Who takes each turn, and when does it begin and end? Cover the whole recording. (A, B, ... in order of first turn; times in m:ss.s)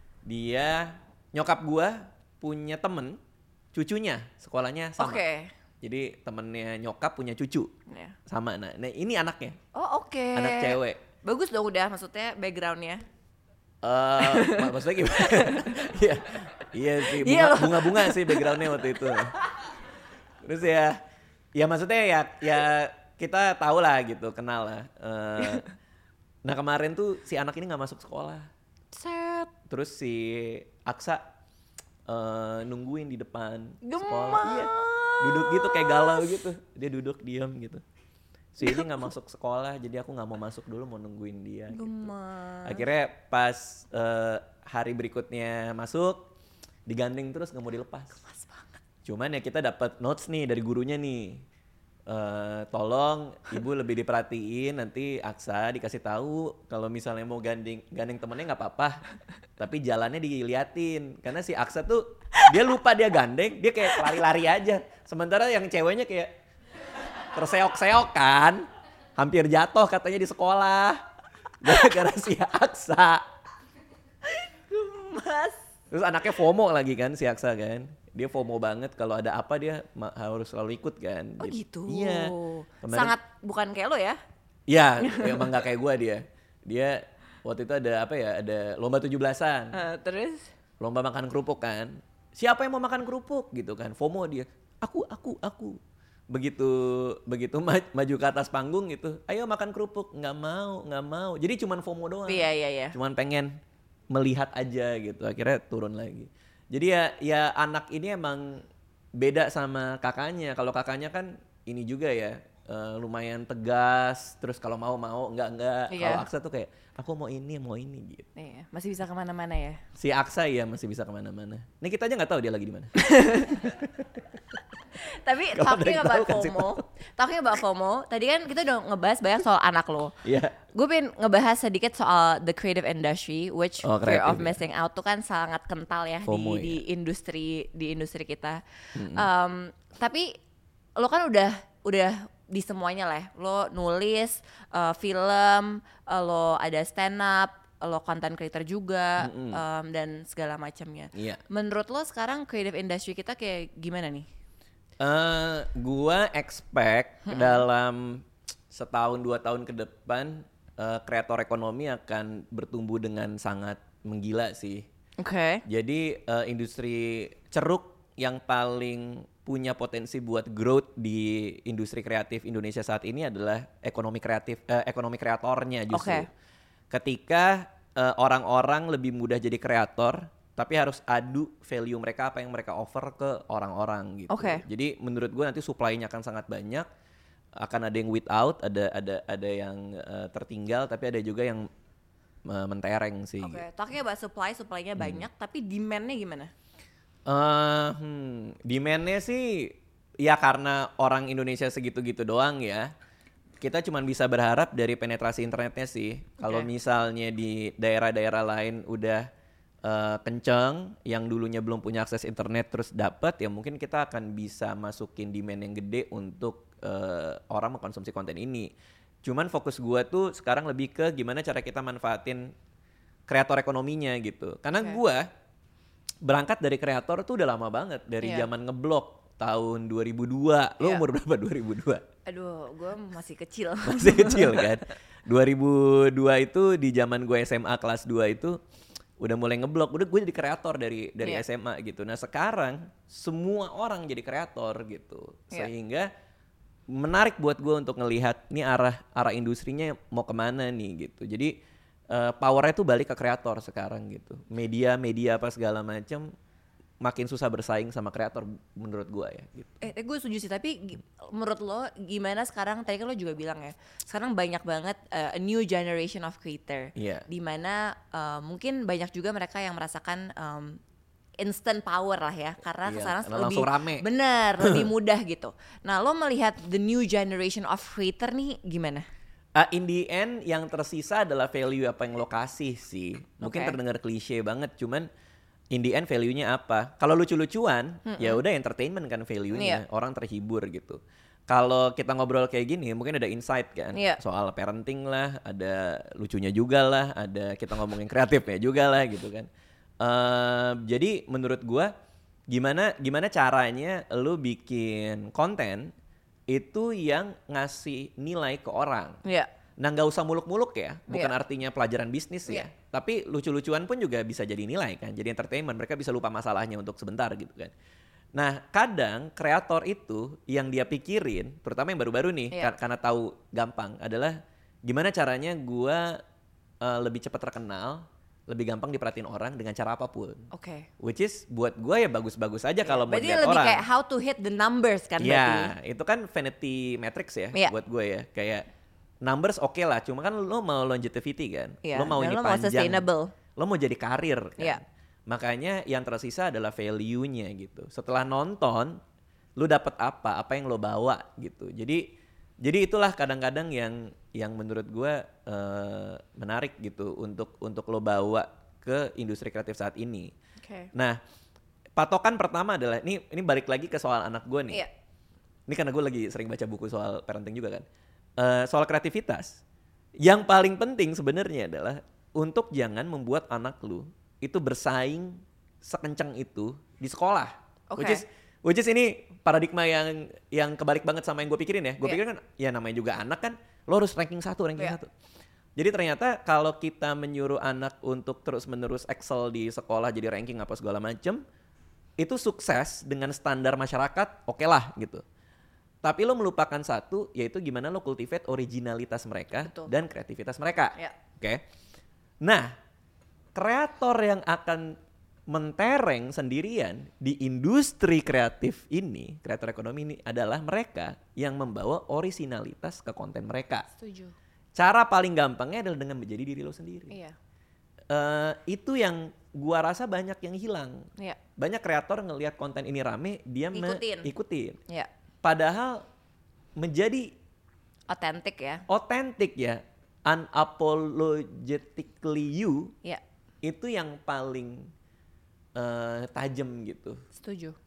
0:00.2-0:03.2 A
0:03.7-0:05.2 A
0:05.0-0:05.5 B
0:05.8-0:07.7 A
0:07.9-0:08.1 B
0:08.3-0:09.6 A
0:09.7-0:13.0 B
0:10.3-0:11.0 A
0:13.8-0:19.4 A
0:14.2-0:15.9 B
0:17.0-0:19.3 B
0:20.4-0:21.0 A
0:21.5-0:25.7 A
0:26.4-0:28.5 A
0:28.9-0:29.5 B
0:29.7-0:31.2 A
0:32.1-0:37.8 A
0:33.8-0:36.4 B
0:38.5-0:42.1 A
0:38.6-0:39.1 B
0:41.7-0:42.8 B
0:42.6-0:46.3 A
0:46.9-0:48.2 A
0:48.2-0:48.8 B
0:49.0-0:51.4 A
0:52.1-0:59.0 A
0:59.6-1:06.3 A
1:07.3-1:11.0 A
1:11.6-1:13.2 A
1:14.2-1:15.6 B
1:15.9-1:23.2 A
1:21.4-1:24.2 B
1:24.7-1:29.8 A
1:25.0-1:25.6 B
1:29.7-1:30.5 B
1:30.8-1:35.8 A
1:36.3-1:43.6 A
1:42.3-1:42.9 B
1:44.1-1:48.6 A
1:49.2-1:58.3 A
1:55.9-1:56.2 B
1:58.4-1:59.8 B
2:00.0-2:04.1 A
2:03.0-2:03.7 B
2:04.9-2:10.1 B
2:05.5-2:06.8 A
2:10.2-2:10.6 A
2:10.7-2:20.4 B
2:13.8-2:14.6 A
2:16.2-2:16.8 A
2:18.9-2:19.3 A
2:21.0-2:34.3 B
2:29.2-2:29.6 A
2:31.1-2:31.4 A
2:35.0-2:44.8 A
2:37.3-2:37.6 B
2:45.2-2:45.6 B
2:45.6-2:56.3 A
2:55.9-2:56.3 B
2:56.9-3:06.9 A
3:04.3-3:04.6 B
3:07.6-3:11.7 A
3:12.4-3:13.6 A
3:13.4-3:16.5 B
3:15.0-3:15.2 A
3:17.3-3:22.9 A
3:23.6-3:29.3 A
3:26.4-3:26.7 B
3:29.8-3:38.7 A
3:39.2-3:42.5 A
3:43.3-3:45.3 A
3:44.7-3:45.0 B
3:46.2-3:52.0 A
3:48.2-3:48.5 B
3:52.2-3:54.7 B
3:53.8-3:58.6 A
3:59.2-4:06.1 A
4:06.9-4:11.5 A
4:12.1-4:16.3 A
4:17.0-4:19.8 A
4:19.8-4:30.8 B
4:26.9-4:27.2 A
4:31.4-4:39.0 B
4:32.8-4:34.0 A
4:34.6-4:34.9 A
4:39.5-4:45.1 A
4:43.4-4:43.8 B
4:45.7-4:59.5 A
4:48.0-4:48.4 B
4:49.5-4:49.8 B
4:53.9-4:54.2 B
5:00.0-5:01.9 A
5:02.5-5:05.9 A
5:06.5-5:09.2 A
5:09.2-5:09.5 B
5:09.8-5:17.7 A
5:18.3-5:26.2 A
5:26.8-5:30.5 A
5:30.5-5:30.9 B
5:31.0-5:33.8 A
5:32.8-5:35.7 B
5:35.2-5:38.6 A
5:39.2-5:43.0 A
5:41.8-5:43.3 B
5:43.6-5:49.0 A
5:49.6-5:52.1 A
5:52.6-6:00.3 A
6:00.6-6:00.9 B
6:00.9-6:01.2 A
6:02.0-6:04.8 A
6:05.7-6:07.8 A
6:08.4-6:09.6 A
6:10.2-6:25.1 A
6:17.9-6:18.2 B
6:25.8-6:31.4 A
6:32.2-6:35.2 A
6:36.0-6:41.6 A
6:39.6-6:39.9 B
6:42.4-6:42.7 A
6:43.5-6:45.0 A
6:45.5-6:53.9 A
6:53.9-6:54.3 B
6:54.8-6:57.2 A
6:57.1-6:57.4 B
6:58.1-7:04.8 A
7:03.7-7:04.3 B
7:05.4-7:06.0 A
7:06.8-7:07.3 A
7:08.1-7:08.8 B
7:08.9-7:12.9 A
7:13.6-7:14.9 A
7:15.8-7:17.2 A
7:17.3-7:17.8 B